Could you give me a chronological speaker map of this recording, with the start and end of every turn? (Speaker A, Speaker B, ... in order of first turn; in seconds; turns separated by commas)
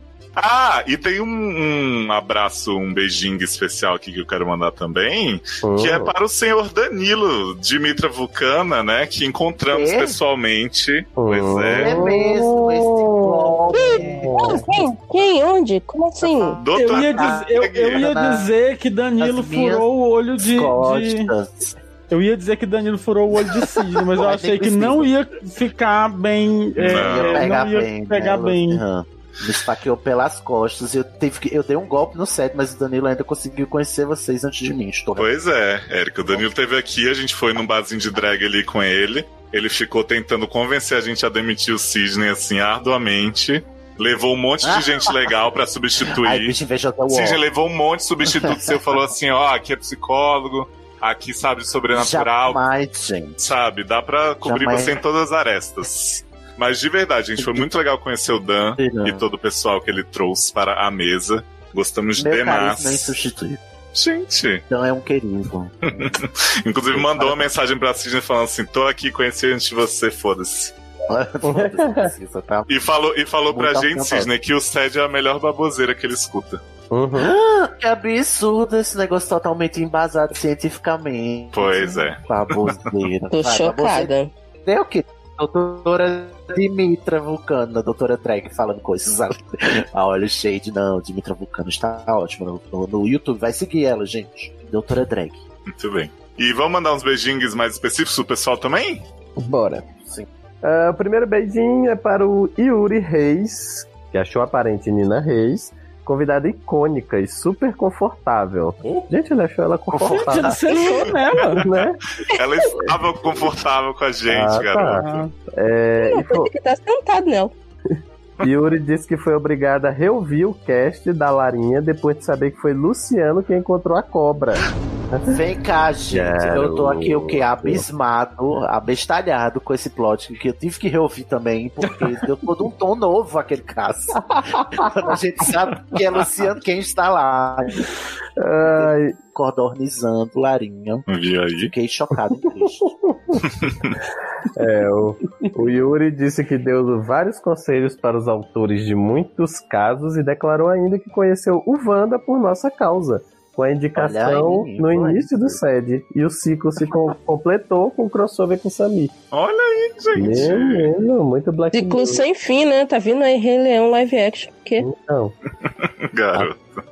Speaker A: 0.4-11.9, Speaker B: 5.6-6.1, Speaker C: 9.7-10.2, Speaker B: 11.2-12.3, Speaker C: 11.8-14.6, Speaker D: 12.0-16.6, Speaker B: 14.0-14.6, Speaker C: 16.2-18.5, Speaker A: 16.6-18.1, Speaker E: 16.7-21.3, Speaker C: 19.2-19.9, Speaker C: 20.4-21.7, Speaker E: 22.1-28.8, Speaker C: 23.5-25.1, Speaker A: 26.8-27.5, Speaker C: 26.9-35.3, Speaker A: 35.1-46.5, Speaker C: 44.6-45.3, Speaker C: 46.1-47.4, Speaker A: 47.1-52.6, Speaker C: 48.2-48.9, Speaker C: 51.9-53.5, Speaker A: 53.4-63.2, Speaker C: 54.4-55.0, Speaker C: 57.4-57.7, Speaker C: 58.8-59.2, Speaker C: 62.1-63.6, Speaker A: 63.9-64.6, Speaker C: 64.7-66.2, Speaker A: 65.8-70.7, Speaker C: 66.9-67.5, Speaker C: 71.1-72.7, Speaker B: 71.4-72.1, Speaker A: 72.7-76.6, Speaker C: 73.5-74.3, Speaker B: 76.9-77.3, Speaker C: 77.1-84.1, Speaker A: 81.5-82.9, Speaker D: 83.3-84.3, Speaker C: 84.6-95.4, Speaker A: 95.7-99.0, Speaker B: 99.4-99.9, Speaker B: 100.6-110.6, Speaker C: 109.9-111.0, Speaker E: 110.1-111.7, Speaker A: 110.8-115.3, Speaker B: 111.5-112.0, Speaker B: 114.3-116.5, Speaker E: 115.0-115.3, Speaker D: 116.0-117.5, Speaker B: 117.9-125.4, Speaker C: 125.3-137.9, Speaker B: 126.1-127.9, Speaker B: 134.2-136.0, Speaker B: 138.4-139.2, Speaker C: 138.6-141.1, Speaker A: 141.1-141.7, Speaker C: 141.7-142.9, Speaker B: 142.4-143.4, Speaker A: 143.4-144.0, Speaker B: 144.6-159.1, Speaker C: 153.9-155.6, Speaker A: 159.3-160.9, Speaker B: 160.1-162.2, Speaker D: 161.7-164.9, Speaker B: 164.8-165.4, Speaker A: 165.6-166.8